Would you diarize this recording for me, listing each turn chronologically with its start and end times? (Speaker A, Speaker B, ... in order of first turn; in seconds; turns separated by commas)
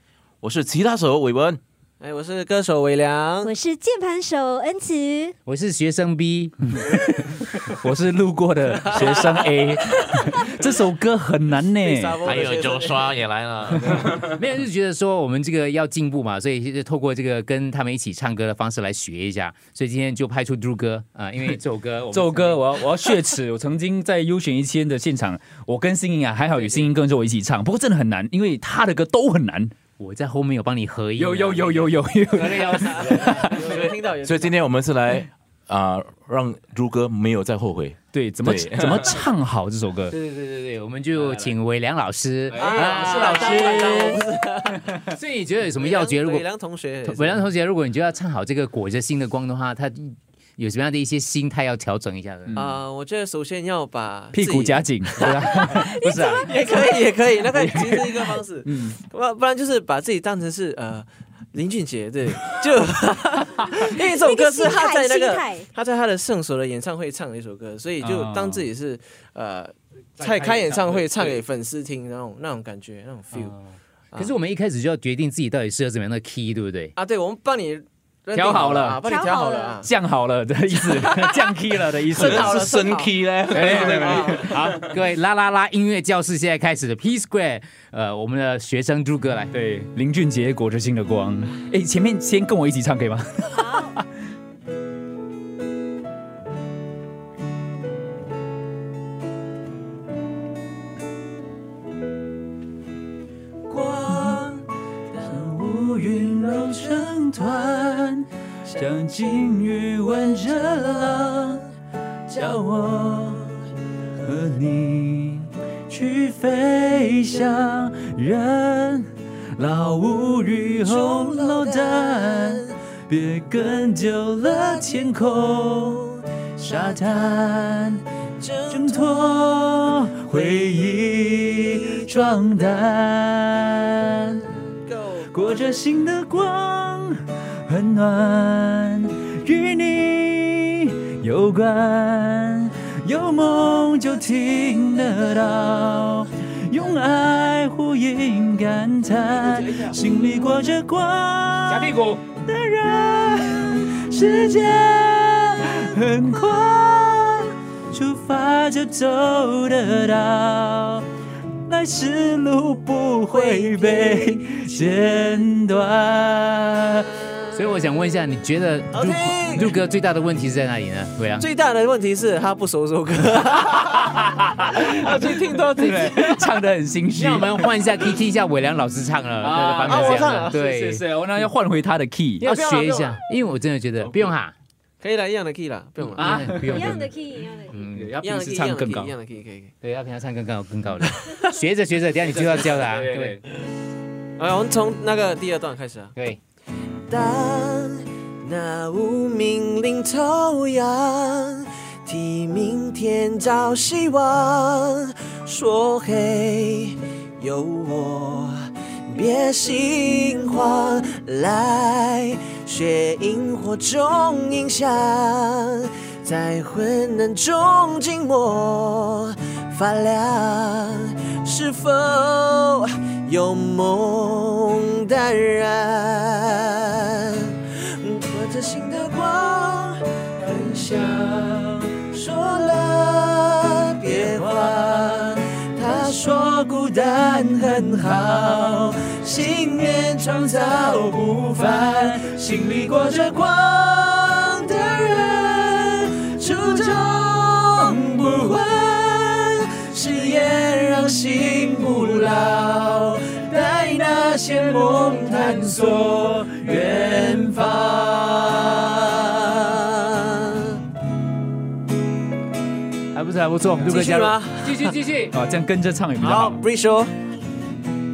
Speaker A: 0.4-1.6, Speaker B: 2.0-3.5, Speaker C: 3.4-5.3, Speaker D: 5.5-6.5, Speaker E: 6.7-12.4, Speaker B: 8.8-9.4, Speaker B: 11.8-13.2, Speaker A: 12.2-14.4, Speaker D: 14.3-22.8, Speaker E: 22.1-29.7, Speaker D: 26.5-26.9, Speaker D: 30.0-33.5, Speaker E: 31.2-33.7, Speaker B: 32.6-34.6, Speaker A: 33.6-39.2, Speaker E: 38.1-40.1, Speaker D: 40.1-44.2, Speaker E: 41.2-41.5, Speaker B: 42.5-45.0, Speaker E: 42.5-43.9, Speaker D: 45.1-46.5, Speaker B: 45.8-47.4, Speaker D: 47.0-52.6, Speaker B: 52.5-73.5, Speaker E: 54.3-56.5, Speaker C: 55.3-57.0, Speaker E: 57.5-59.0, Speaker C: 64.1-65.7, Speaker E: 68.0-68.7, Speaker A: 70.2-71.4, Speaker D: 73.3-73.6, Speaker D: 74.2-76.9, Speaker B: 77.0-79.9, Speaker E: 78.3-79.0, Speaker D: 78.4-79.0, Speaker C: 79.0-79.8, Speaker E: 79.8-82.6, Speaker B: 80.8-81.5, Speaker B: 82.1-84.5, Speaker A: 82.2-84.9, Speaker E: 83.5-84.4, Speaker D: 84.4-89.5, Speaker E: 89.5-94.0, Speaker C: 93.5-94.0, Speaker B: 103.7-108.1, Speaker E: 104.1-104.4, Speaker E: 105.2-111.6, Speaker B: 108.6-109.5, Speaker B: 110.5-111.4, Speaker B: 112.3-113.5, Speaker E: 112.3-113.5, Speaker E: 114.2-126.0, Speaker B: 120.8-122.7, Speaker B: 124.4-127.6, Speaker E: 126.6-128.0, Speaker B: 128.4-132.7, Speaker E: 128.7-134.4, Speaker B: 134.5-135.8, Speaker E: 135.3-161.0, Speaker D: 149.3-150.0, Speaker D: 151.7-152.2, Speaker E: 161.7-167.1, Speaker B: 163.3-165.4, Speaker B: 167.2-167.8, Speaker D: 167.5-171.4, Speaker B: 168.9-169.8, Speaker B: 171.4-176.5, Speaker E: 174.2-174.9, Speaker E: 175.8-177.7, Speaker D: 177.1-181.0, Speaker E: 179.4-182.5, Speaker B: 179.8-180.6, Speaker D: 182.4-184.5, Speaker B: 182.4-183.2, Speaker B: 185.0-186.3, Speaker D: 186.1-187.1, Speaker E: 186.2-187.0, Speaker C: 186.6-187.8, Speaker D: 187.7-188.1, Speaker E: 187.9-189.1, Speaker B: 188.2-189.7, Speaker D: 189.8-193.4, Speaker B: 191.1-191.4, Speaker E: 192.2-193.4, Speaker B: 194.4-196.1, Speaker B: 197.1-260.7, Speaker E: 256.7-257.3, Speaker D: 263.1-265.3, Speaker B: 263.8-264.9, Speaker E: 265.3-266.6, Speaker B: 266.2-267.1